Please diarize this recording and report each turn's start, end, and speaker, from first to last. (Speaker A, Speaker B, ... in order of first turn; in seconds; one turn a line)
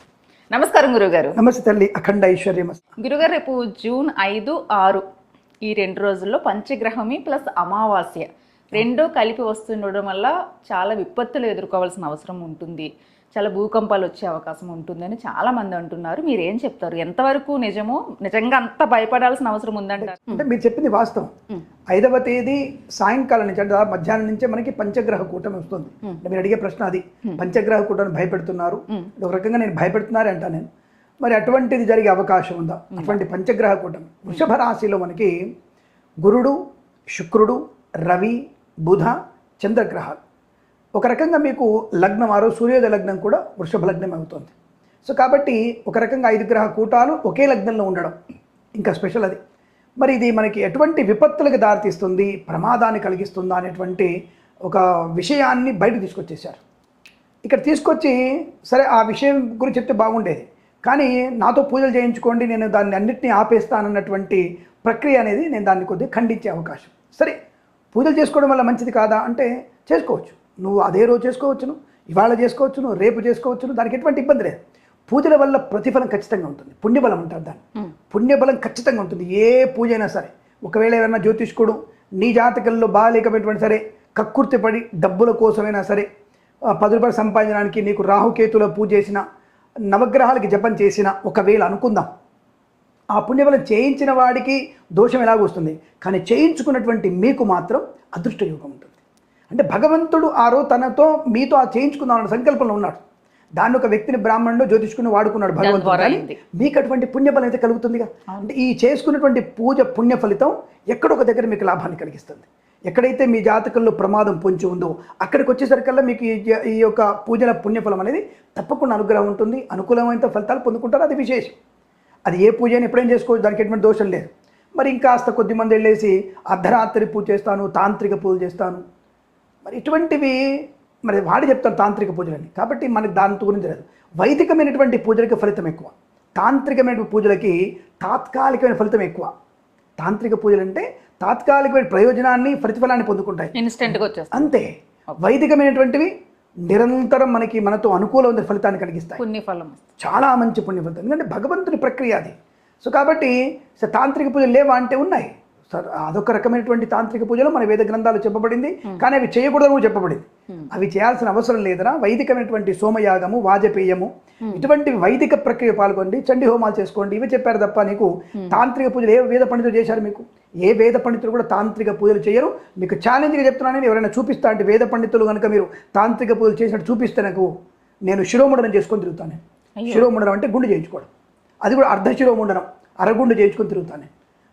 Speaker A: 0.5-1.4
Speaker B: 1.4-2.8
Speaker A: 3.0-5.0
Speaker A: 5.6-20.4
Speaker B: 20.0-21.3
Speaker B: 21.9-30.7
Speaker B: 31.2-35.3
Speaker B: 36.2-36.6
Speaker B: 37.1-40.2
Speaker B: 41.0-44.5
Speaker B: 45.0-48.1
Speaker B: 48.8-49.4
Speaker B: 50.0-54.1
Speaker B: 54.7-56.6
Speaker B: 57.5-67.4
Speaker B: 67.9-86.1
Speaker B: 86.7-89.2
Speaker B: 89.9-92.1
Speaker B: 93.2-99.0
Speaker B: 99.5-103.0
Speaker B: 103.6-121.6
Speaker A: 105.6-106.4
Speaker B: 122.3-128.8
Speaker B: 129.7-130.4
Speaker B: 131.1-139.3
Speaker B: 140.0-146.1
Speaker A: 143.6-144.5
Speaker B: 146.7-149.2
Speaker A: 149.2-149.8
Speaker B: 150.0-177.5
Speaker B: 178.1-181.1
Speaker A: 179.8-180.1
Speaker B: 181.6-184.1